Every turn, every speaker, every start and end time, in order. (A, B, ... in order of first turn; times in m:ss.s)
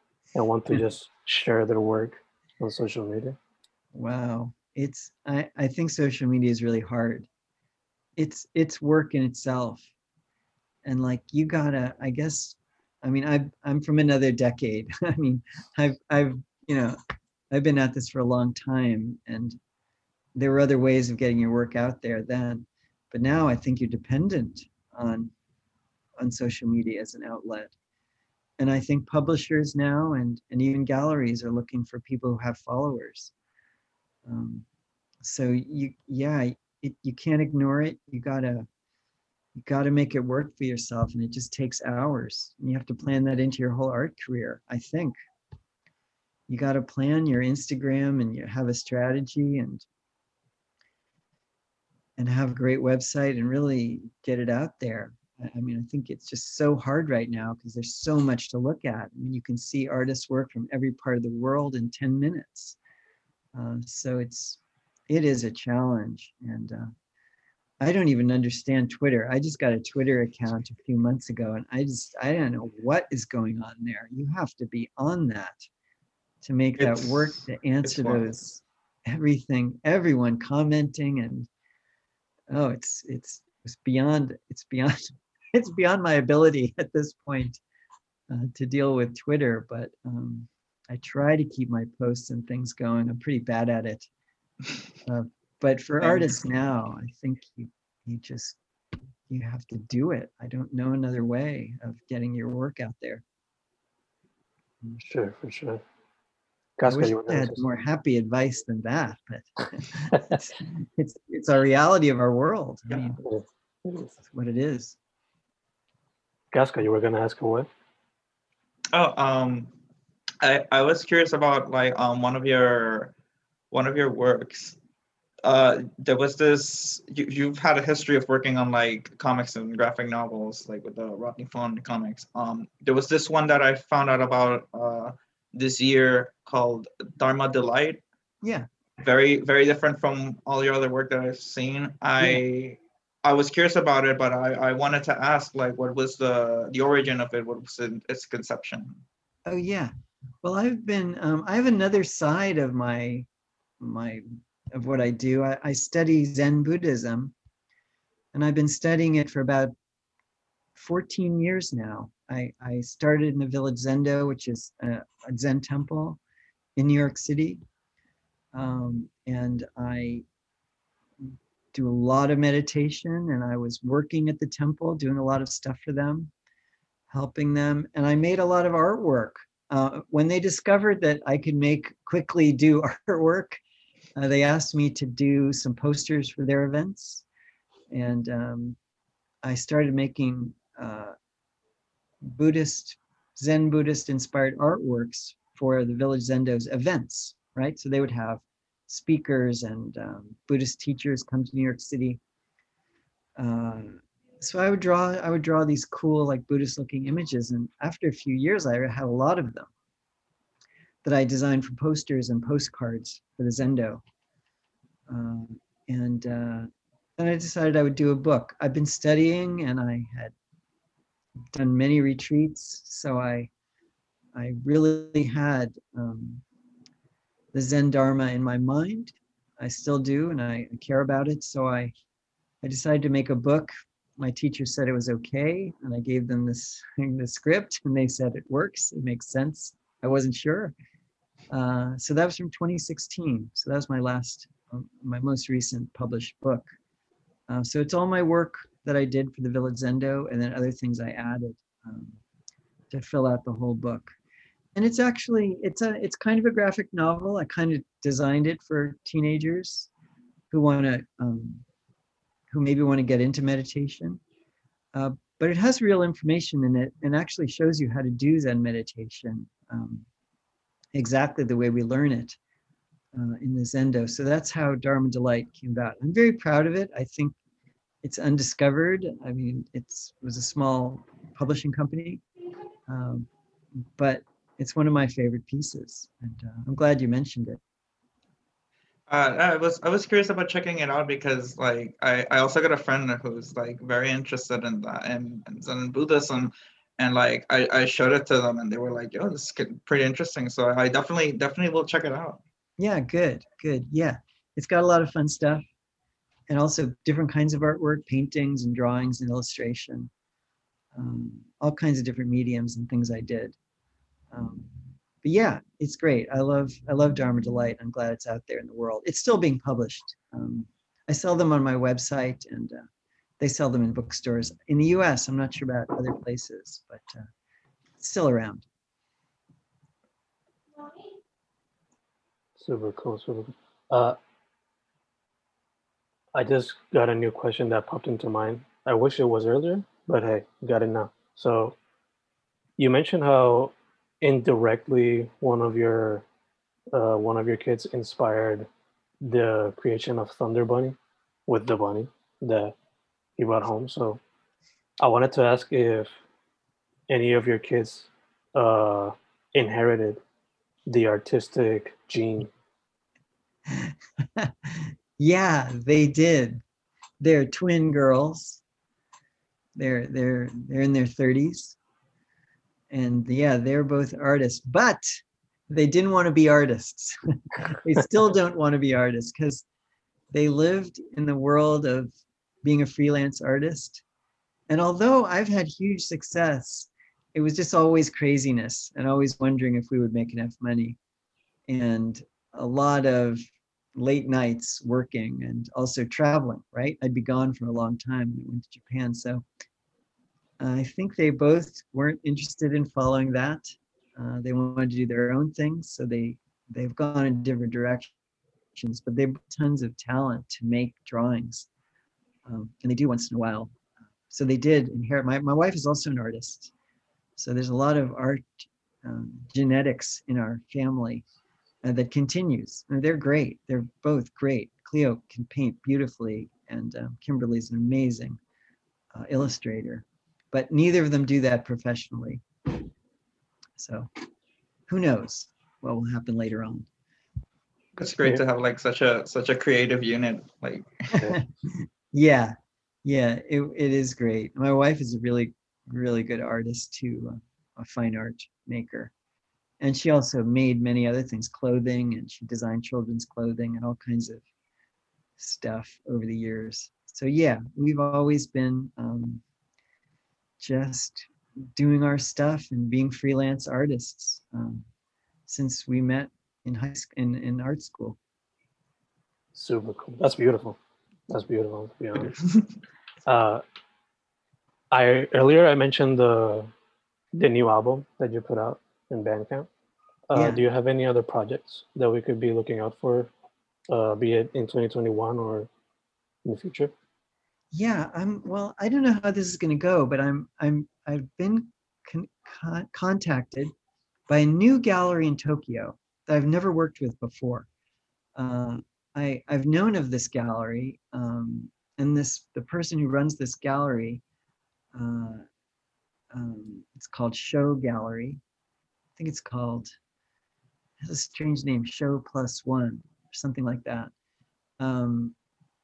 0:00.3-0:03.4 A
0:03.9-0:07.3 B
0:08.2-0:09.9 B
0:10.9-0:17.0 B
0:17.5-0:19.6 B
0:20.4-0:25.3 B
0:26.2-0:27.7 B
0:28.6-0:33.3 B
0:34.3-0:34.6 B
0:35.2-0:38.7 B
0:39.6-0:45.2 B
0:46.5-0:49.8 B
0:52.2-1:02.8 B
1:03.5-1:06.9 B
1:07.8-1:15.7 B
1:16.4-1:21.5 B
1:16.8-1:18.3 C
1:22.5-1:27.6 B
1:28.3-1:34.1 B
1:35.0-1:38.6 B
1:39.3-1:43.2 B
1:45.0-1:45.8 A
1:46.8-1:47.6 A
1:46.9-1:53.2 B
1:53.2-1:54.1 A
1:54.2-1:55.0 B
1:56.5-1:57.7 A
1:58.9-1:59.7 C
2:00.4-2:03.1 C
2:03.7-2:04.8 C
2:05.4-2:18.0 C
2:19.0-2:22.5 C
2:22.2-2:22.8 B
2:23.2-2:29.0 C
2:29.5-2:29.9 B
2:30.4-2:33.3 B
2:33.8-2:37.3 B
2:38.3-2:39.7 B
2:40.8-2:46.2 B
2:46.8-2:47.6 B
2:48.5-2:50.2 B
2:51.7-2:56.3 B
2:57.1-3:03.6 B
3:04.2-3:07.2 B
3:07.9-3:08.8 B
3:09.4-3:11.2 B
3:12.3-3:22.2 B
3:23.4-3:29.7 B
3:31.0-3:34.0 B
3:35.1-3:40.3 B
3:41.5-3:43.5 B
3:44.4-3:46.4 B
3:47.5-3:51.9 B
3:52.6-4:00.8 B
4:01.5-4:06.7 B
4:07.5-4:12.2 B
4:12.9-4:14.1 B
4:14.8-4:19.9 B
4:20.5-4:21.6 B
4:22.5-4:24.2 B
4:24.9-4:30.0 B
4:31.0-4:32.4 B
4:33.1-4:37.4 B
4:38.0-4:42.2 B
4:42.9-4:43.3 B
4:44.0-4:47.6 B
4:49.1-5:02.4 C
5:02.8-5:05.6 B
5:06.5-5:10.1 B
5:10.9-5:13.6 B
5:14.3-5:22.8 B
5:23.4-5:27.3 B
5:28.0-5:28.7 B
5:32.6-5:34.2 A
5:36.4-5:41.8 A
5:42.8-5:46.2 A
5:46.9-5:48.7 A
5:49.2-5:51.0 A
5:51.5-5:52.8 A
5:53.4-5:54.2 A
5:55.0-5:56.1 A
5:57.1-6:00.2 A
6:00.9-6:02.5 A
6:03.7-6:06.6 B
6:07.2-6:08.6 B
6:09.8-6:11.8 B
6:12.9-6:15.1 B
6:15.7-6:19.6 B
6:20.3-6:22.1 B
6:22.6-6:24.0 B
6:24.7-6:31.0 B
6:31.7-6:33.4 B
6:34.0-6:39.4 B
6:40.6-6:48.1 B
6:48.8-6:51.7 B
6:52.5-6:53.7 B
6:54.3-6:56.7 B
6:57.4-7:01.2 B
7:01.8-7:08.4 B
7:09.1-7:12.4 B
7:13.8-7:14.1 B
7:14.9-7:16.9 B
7:18.0-7:21.2 C
7:21.2-7:29.1 B
7:29.8-7:34.4 B
7:35.4-7:39.4 B
7:40.6-7:44.8 B
7:45.5-7:48.2 B
7:49.6-7:50.8 A
7:51.3-7:52.4 A
7:52.2-7:52.7 C
7:53.3-7:53.6 A
7:54.9-7:56.7 A
7:57.3-7:59.7 A
8:00.3-8:03.3 A
8:00.4-8:00.6 B
8:03.9-8:05.7 A
8:06.4-8:06.9 A
8:07.7-8:13.7 B
8:14.3-8:17.7 B
8:18.4-8:24.2 B
8:24.9-8:25.4 B
8:26.3-8:28.4 B
8:29.2-8:29.9 B
8:31.0-8:34.1 B
8:34.8-8:35.3 B